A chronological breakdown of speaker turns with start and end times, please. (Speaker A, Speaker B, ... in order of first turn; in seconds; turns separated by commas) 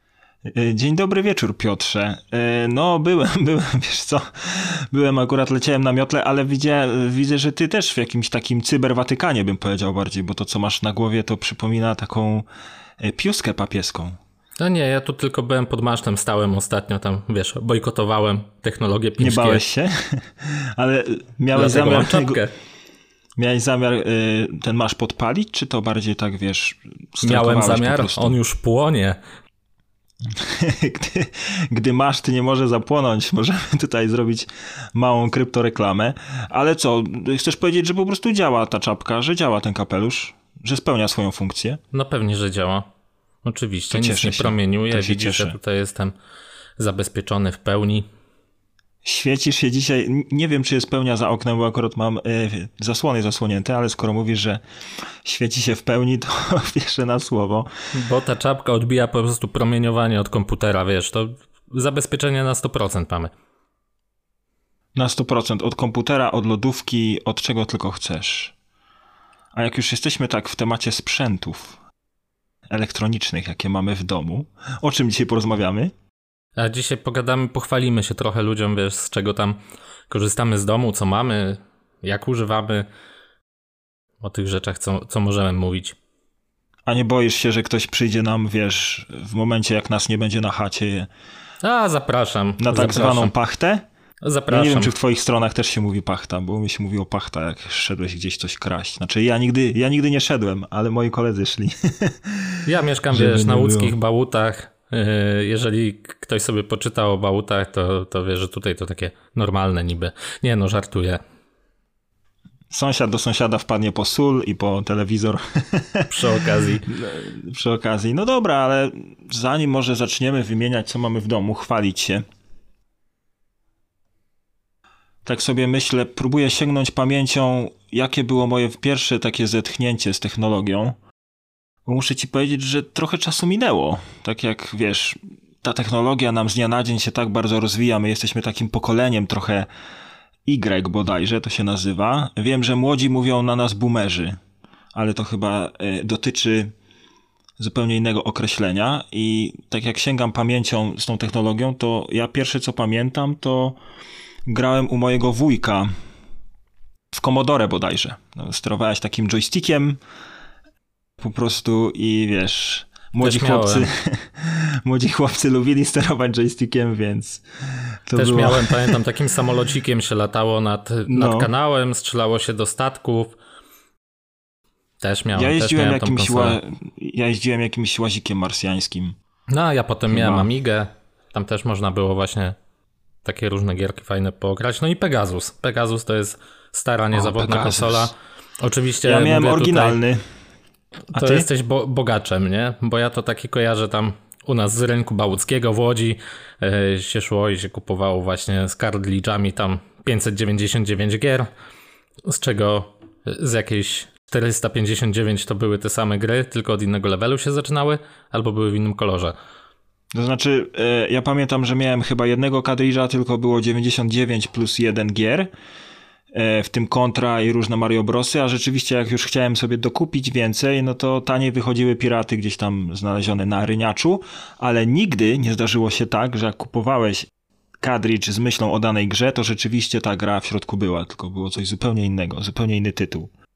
Speaker A: 0.5-12.5, Speaker A: 13.0-14.2, Speaker B: 14.6-19.6, Speaker A: 19.2-22.4, Speaker B: 21.5-22.5, Speaker A: 23.4-28.4, Speaker B: 27.2-29.2, Speaker A: 30.2-41.8, Speaker B: 41.9-42.9, Speaker B: 43.4-46.1, Speaker A: 43.9-45.6, Speaker B: 46.8-48.1, Speaker A: 49.0-54.6, Speaker A: 55.2-57.7, Speaker B: 57.9-63.3, Speaker A: 65.0-68.5, Speaker A: 69.5-71.8, Speaker A: 72.7-75.9, Speaker B: 76.6-82.9, Speaker B: 84.2-86.0, Speaker A: 86.9-91.1, Speaker B: 91.6-93.3, Speaker A: 92.6-93.9, Speaker B: 94.2-94.9, Speaker A: 94.5-104.0, Speaker B: 102.7-111.2, Speaker A: 112.7-116.2, Speaker B: 116.1-116.9, Speaker A: 116.9-122.2, Speaker A: 125.2-131.0, Speaker A: 131.8-139.7, Speaker A: 140.5-144.4, Speaker A: 144.9-146.7, Speaker A: 147.6-153.8, Speaker A: 154.5-155.9, Speaker A: 157.1-160.0, Speaker A: 161.2-167.4, Speaker B: 163.2-163.9, Speaker A: 168.1-169.0, Speaker B: 168.2-173.4, Speaker A: 171.1-171.5, Speaker B: 175.0-176.6, Speaker A: 175.3-179.2, Speaker B: 179.5-182.6, Speaker A: 180.1-180.5, Speaker B: 183.2-190.0, Speaker A: 187.1-188.1, Speaker A: 189.0-190.2, Speaker B: 191.1-201.5, Speaker A: 191.1-191.5, Speaker B: 202.3-209.3, Speaker A: 210.1-215.5, Speaker A: 216.3-227.3, Speaker A: 227.8-233.3